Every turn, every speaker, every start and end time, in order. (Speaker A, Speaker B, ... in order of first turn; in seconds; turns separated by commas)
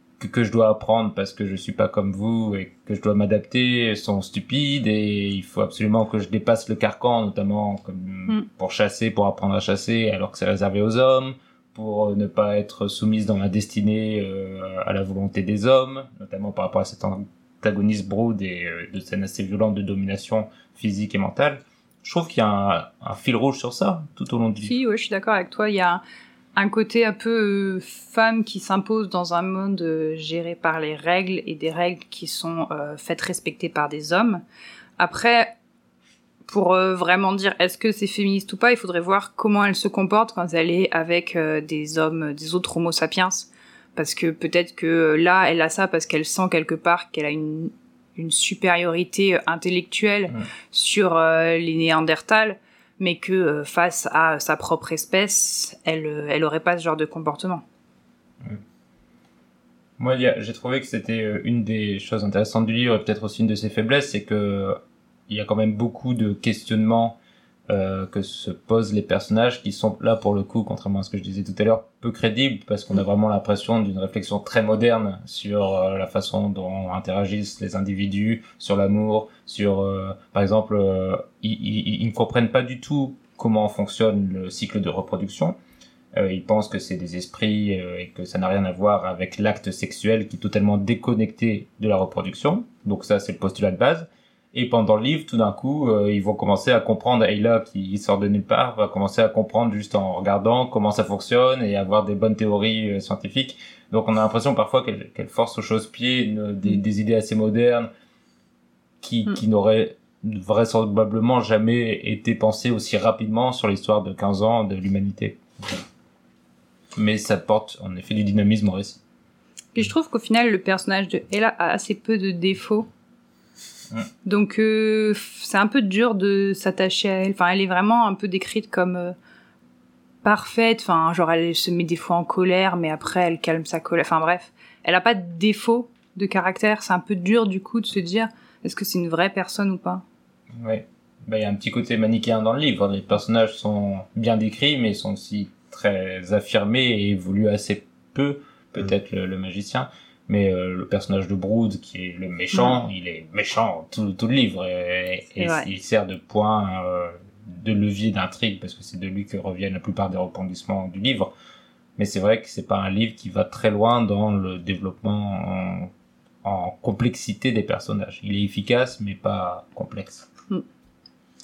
Speaker A: 0.2-24.8, Speaker B: 24.6-26.0, Speaker B: 26.6-34.4, Speaker B: 35.0-35.5, Speaker B: 36.5-57.6, Speaker A: 60.0-85.6, Speaker A: 86.1-107.9, Speaker A: 109.0-115.8, Speaker A: 117.0-119.0, Speaker B: 119.7-122.9, Speaker B: 124.2-129.1, Speaker B: 130.2-140.0, Speaker A: 140.6-161.3, Speaker B: 155.4-155.7, Speaker A: 162.0-165.9, Speaker A: 166.4-170.3